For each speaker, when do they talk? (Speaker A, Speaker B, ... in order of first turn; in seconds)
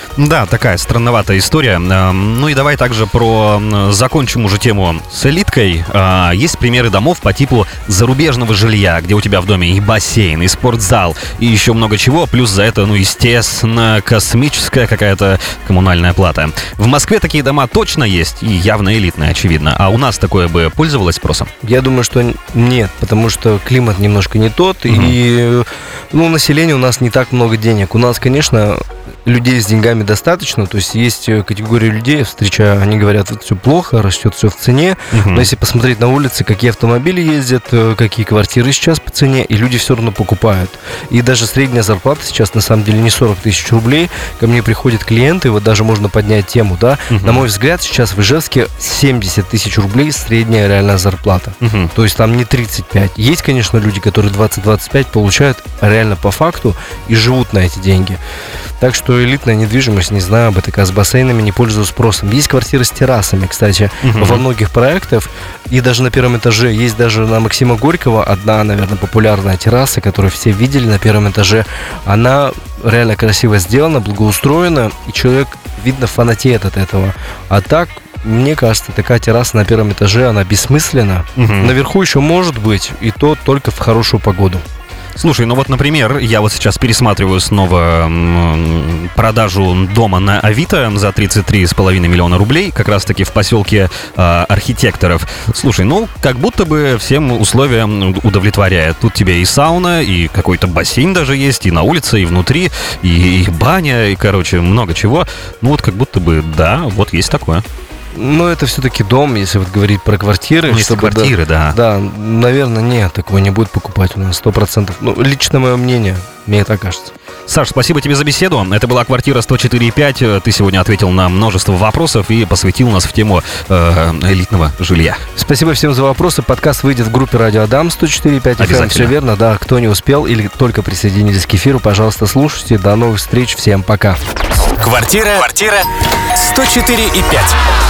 Speaker A: 0.1-21.5, 24.9-25.1, 35.1-35.5, 47.1-47.4, 51.6-51.9, 64.0-64.4, 81.3-81.7, 85.2-107.6, 110.7-111.8, 117.5-125.2, 128.6-129.1
Speaker B: 21.6-58.2, 58.8-84.6, 108.1-117.1, 125.3-134.2
Speaker C: 134.8-137.6